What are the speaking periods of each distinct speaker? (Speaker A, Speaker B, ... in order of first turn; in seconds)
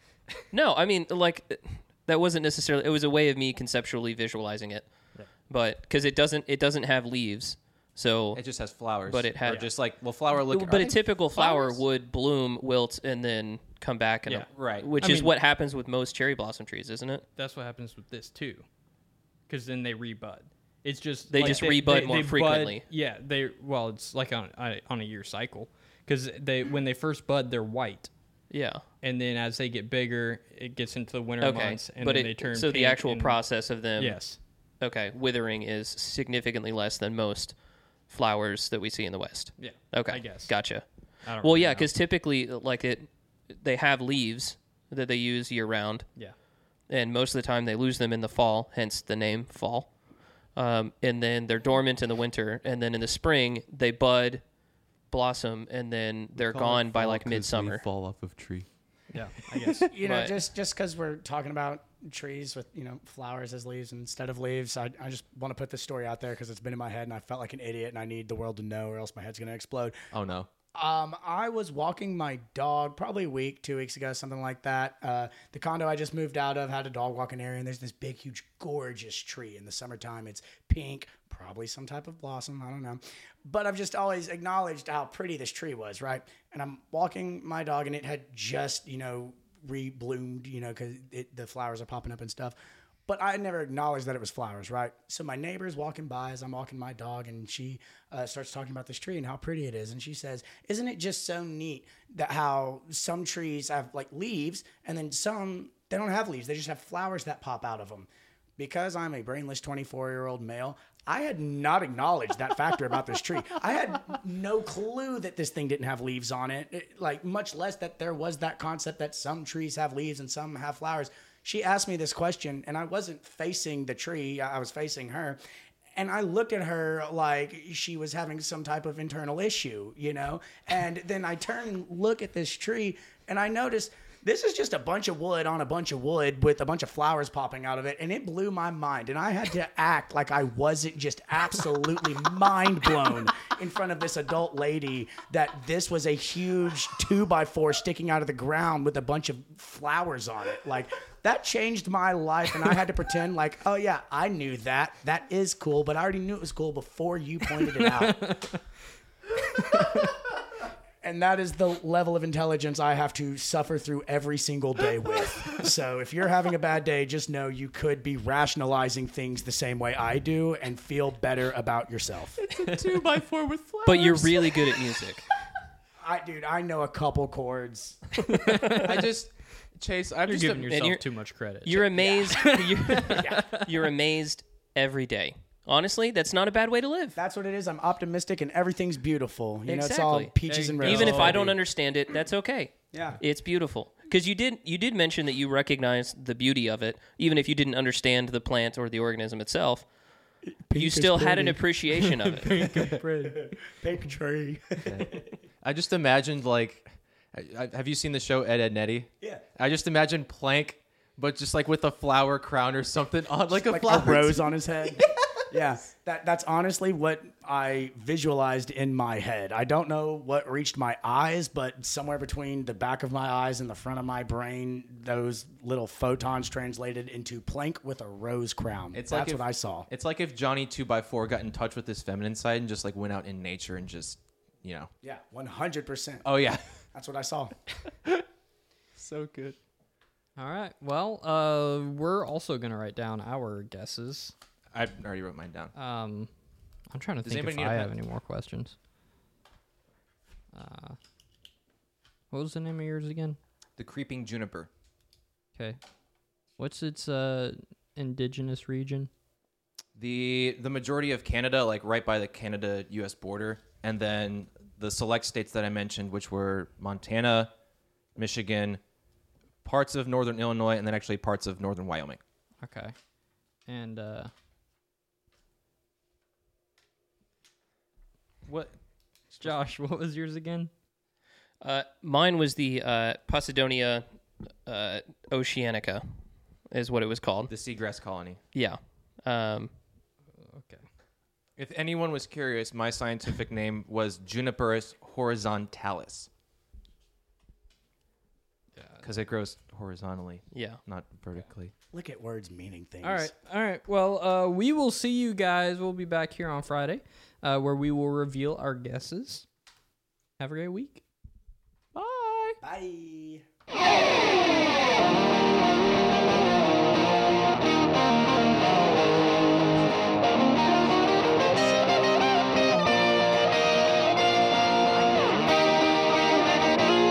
Speaker A: 0.5-4.9, 5.5-8.4, 9.1-9.7, 10.4-17.2, 21.3-22.8, 28.5-28.8, 31.4-34.2, 34.8-37.5, 38.1-40.8, 41.4-46.0, 46.9-49.9, 50.5-54.4, 55.1-57.8, 60.0-60.3, 173.8-175.2, 180.7-181.0, 181.6-187.2, 189.7-199.8, 200.7-202.5, 281.6-284.0, 284.6-286.1, 286.7-287.5, 288.5-289.7, 300.5-300.8
Speaker B: 8.3-11.8, 14.5-14.9, 56.4-58.7, 70.1-70.5, 172.3-174.8, 178.7-180.7, 204.8-214.5, 228.9-234.9, 236.2-236.8, 237.9-238.2, 239.0-239.6, 244.7-245.7, 247.2-247.9, 253.8-254.7, 259.9-267.5, 268.1-268.8, 269.6-272.2, 278.4-278.7, 287.5-288.4, 291.6-296.3, 299.0-301.7, 311.9-312.6
Speaker C: 15.0-15.3, 17.4-18.6, 19.5-28.1, 29.0-33.4, 34.0-34.4, 39.6-40.5, 41.2-41.9, 59.1-59.9, 157.8-158.6, 159.6-160.1, 178.3-179.1, 180.3-183.8, 190.4-191.4, 201.9-203.6, 240.4-244.3, 245.7-246.3, 246.9-248.8, 250.5-251.0, 252.3-253.4, 256.6-259.1, 272.6-272.9, 273.7-274.3, 279.3-280.7, 290.4-290.9, 298.8-299.1, 303.0-309.5, 310.4-311.0
Speaker D: 59.9-70.0, 70.7-92.5, 93.1-125.4, 125.9-158.4, 159.8-160.2, 161.0-172.4, 176.0-178.3, 181.9-182.5, 183.1-183.4, 187.2-191.6, 192.9-193.2, 200.7-201.6, 203.3-205.3, 213.5-229.9, 235.0-236.3, 236.9-237.5, 301.9-303.3, 312.6-313.4, 318.4-319.9, 320.4-322.4